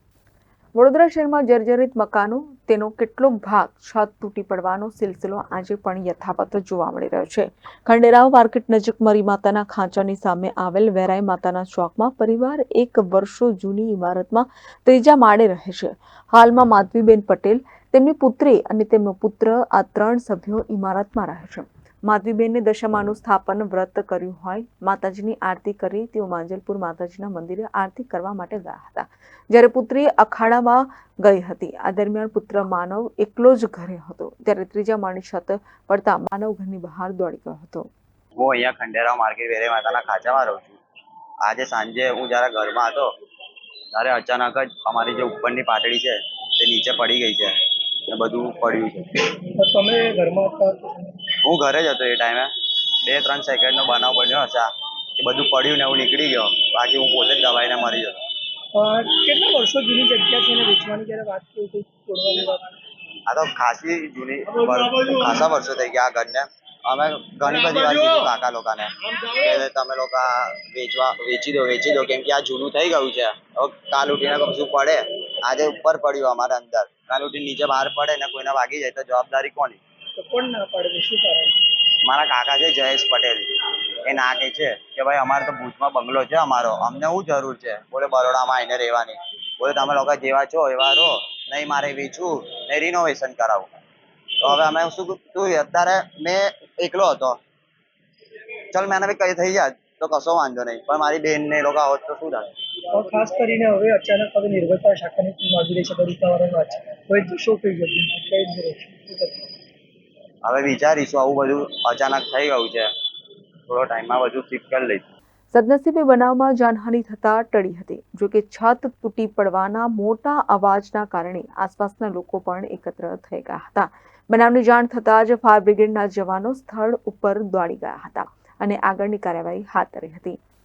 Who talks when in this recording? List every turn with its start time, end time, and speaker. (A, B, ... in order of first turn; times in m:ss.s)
0:00.7-0:37.9 A
0:38.4-0:40.8 B
0:41.4-0:43.1 B
0:43.9-0:47.5 B
0:48.1-0:49.1 B
0:49.5-0:51.3 C
0:51.4-0:52.5 B
0:53.0-0:58.2 B
0:58.7-1:02.7 C
1:03.3-1:19.8 B
1:20.2-1:21.6 C
1:22.0-1:23.5 B
1:24.0-1:33.7 B
1:34.4-1:37.4 B
1:38.7-1:42.5 B
1:42.9-1:49.5 C
1:50.4-1:52.9 B
1:53.7-1:55.0 B
1:55.5-2:10.4 A